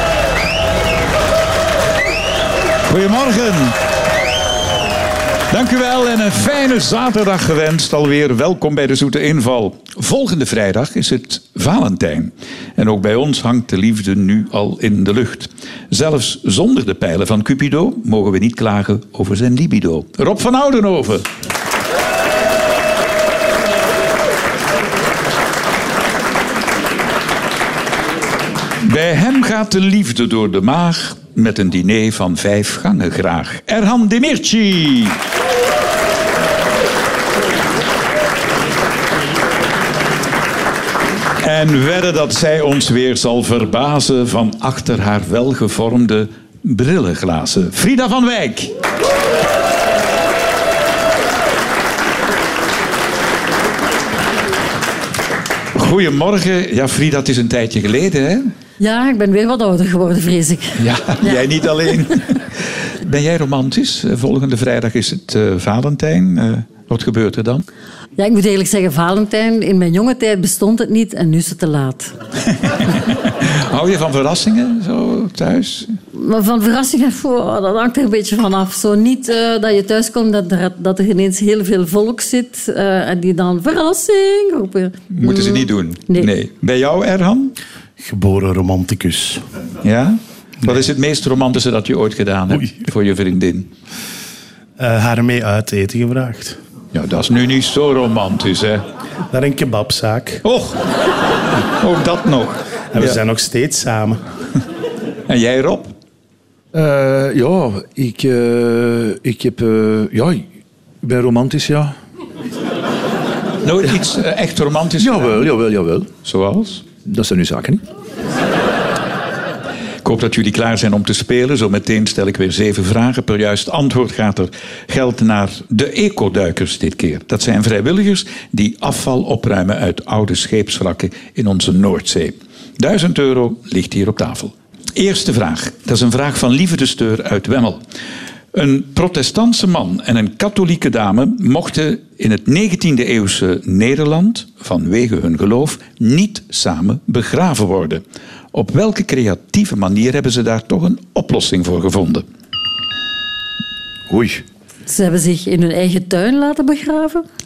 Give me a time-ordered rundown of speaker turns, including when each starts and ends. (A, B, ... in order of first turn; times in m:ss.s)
0:02.9-0:03.8 A
0:05.5-0:21.3 A
0:28.8-0:35.2 A
0:41.4-0:48.7 A
0:55.8-0:58.5 A
0:58.8-1:01.4 B
1:00.8-1:07.7 A
1:08.2-1:12.1 B
1:12.6-1:15.9 A
1:16.1-1:26.3 B
1:25.1-1:27.6 A
1:28.0-1:29.4 C
1:29.8-1:33.7 A
1:34.8-1:36.6 C
1:36.9-1:38.8 A
1:39.3-1:40.4 C
1:40.4-1:40.8 A
1:41.8-1:43.2 A
1:42.9-1:44.2 C
1:45.3-1:45.9 A
1:46.7-1:50.4 D
1:51.0-1:52.0 D
1:53.6-1:55.5 A
1:55.0-1:56.1 D
1:56.2-1:56.8 A
1:57.0-1:57.8 D
2:00.0-2:17.8 A
2:18.5-2:28.0 A
2:28.5-2:32.2 A
2:34.1-2:34.4 D
2:34.9-2:37.2 B